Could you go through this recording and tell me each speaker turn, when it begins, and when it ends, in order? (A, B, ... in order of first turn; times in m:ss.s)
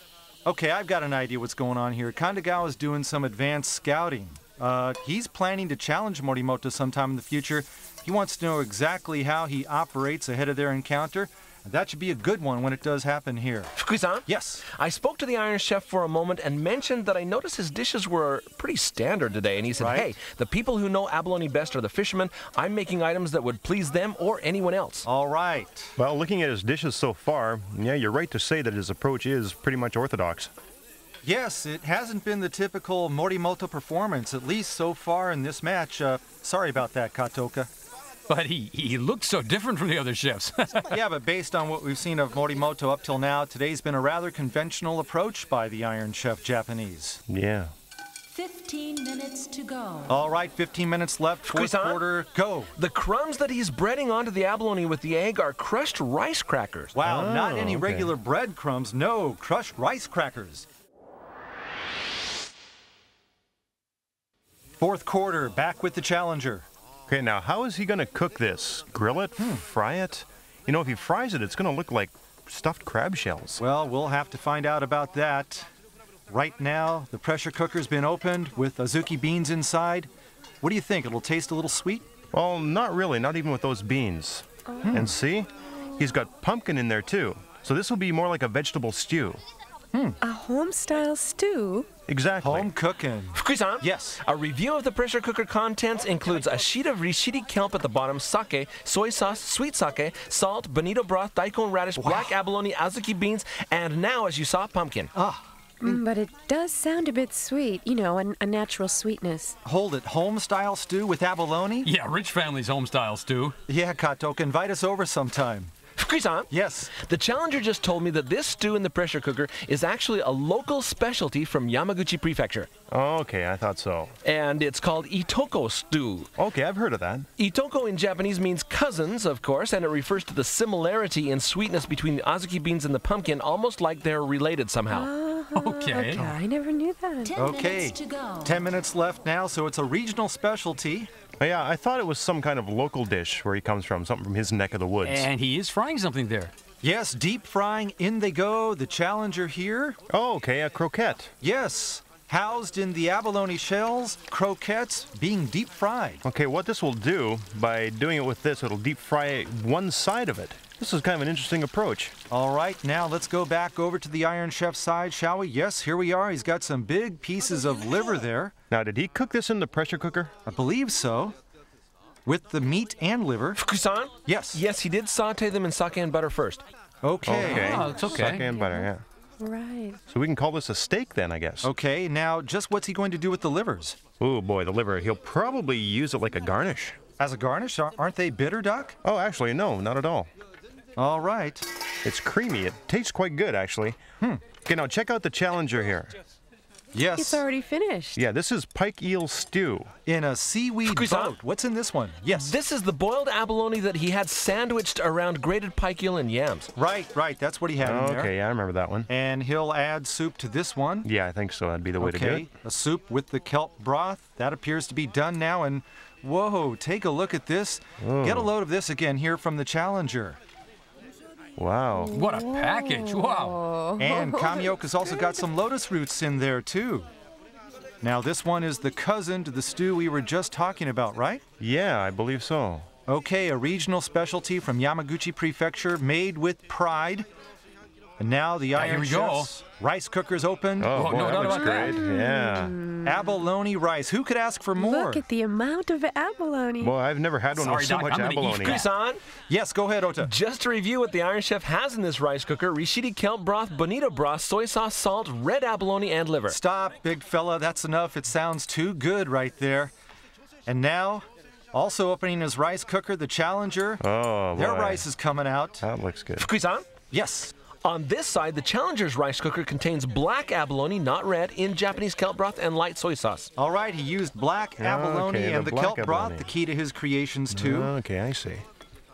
0:00.4-0:13.7 A
0:13.8-0:25.1 B
0:14.2-0:14.6 A
0:19.8-0:20.1 A
0:25.0-0:25.9 A
0:26.0-0:30.5 C
0:31.2-0:37.7 A
0:38.3-0:40.9 D
0:40.9-0:47.2 A
0:47.3-0:47.7 C
0:48.3-0:50.2 E
0:50.1-0:52.7 A
0:51.4-0:52.0 B
0:52.8-0:56.9 B
0:56.9-1:00.7 A
0:57.0-0:58.1 C
1:04.8-1:06.6 A
1:07.1-1:13.6 C
1:09.4-1:09.6 A
1:13.6-1:15.7 A
1:16.3-1:20.1 A
1:20.6-1:22.1 A
1:22.3-1:29.4 C
1:24.8-1:25.2 A
1:30.2-1:31.9 F
1:32.1-1:32.7 C
1:32.4-1:34.2 A
1:33.3-1:45.1 B
1:42.0-1:42.4 A
1:45.1-1:46.0 A
1:45.8-1:49.6 F
1:49.6-1:51.9 A
1:51.8-1:53.6 D
1:53.7-1:55.7 A
1:56.0-2:02.7 B
1:56.5-1:56.9 A
2:02.9-2:04.1 C
2:04.2-2:06.3 B
2:06.4-2:07.3 C
2:07.4-2:15.1 B
2:14.9-2:17.5 F
2:15.5-2:16.4 D
2:17.2-2:18.6 E
2:17.3-2:21.1 A
2:21.4-2:25.3 C
2:25.0-2:26.5 D
2:26.8-2:30.0 A
2:30.1-2:31.3 C
2:31.4-2:36.2 A
2:36.2-2:42.1 C
2:42.3-2:48.5 A
2:48.7-2:50.3 C
2:50.4-2:51.4 A
2:52.2-2:53.6 A
2:53.6-2:56.6 B
2:54.2-2:54.6 A
2:57.0-2:57.9 A
2:57.2-2:59.0 C
2:57.4-2:58.5 D
2:58.5-2:58.9 F
2:59.4-3:00.0 F
3:00.1-3:01.7 C
3:01.6-3:04.0 A
3:04.2-3:07.0 C
3:07.2-3:09.0 A
3:09.0-3:10.3 C
3:11.0-3:11.6 A
3:12.0-3:14.0 C
3:14.6-3:16.1 C
3:16.9-3:17.4 A
3:17.2-3:18.2 F
3:18.2-3:19.9 C
3:20.0-3:22.5 A
3:20.9-3:21.4 B
3:22.3-3:26.7 B
3:26.8-3:28.3 A
3:27.8-3:29.1 C
3:29.1-3:31.1 A
3:31.0-3:32.5 C
3:32.0-3:40.4 A
3:38.0-3:38.5 C
3:41.6-3:42.2 C
3:41.9-3:45.4 F
3:42.1-3:43.6 D
3:44.0-3:47.1 A
3:48.0-3:51.4 A
3:51.6-3:52.9 C
3:53.1-3:57.3 A
3:58.2-4:01.0 A
3:58.7-3:59.5 D
4:00.8-4:02.8 C
4:00.9-4:02.1 D
4:01.4-4:03.2 F
4:03.0-4:05.2 A
4:04.8-4:07.0 F
4:06.8-4:08.8 C
4:07.6-4:08.8 D
4:08.5-4:09.2 B
4:09.5-4:10.3 A
4:10.2-4:16.6 B
4:16.5-4:19.9 A
4:20.6-4:24.0 A
4:24.0-4:25.0 C
4:24.5-4:25.8 A
4:25.8-4:26.4 C
4:26.4-4:26.8 B
4:27.1-4:27.5 A
4:27.8-4:33.5 B
4:33.6-4:37.9 A
4:34.8-4:36.5 C
4:37.5-4:38.6 C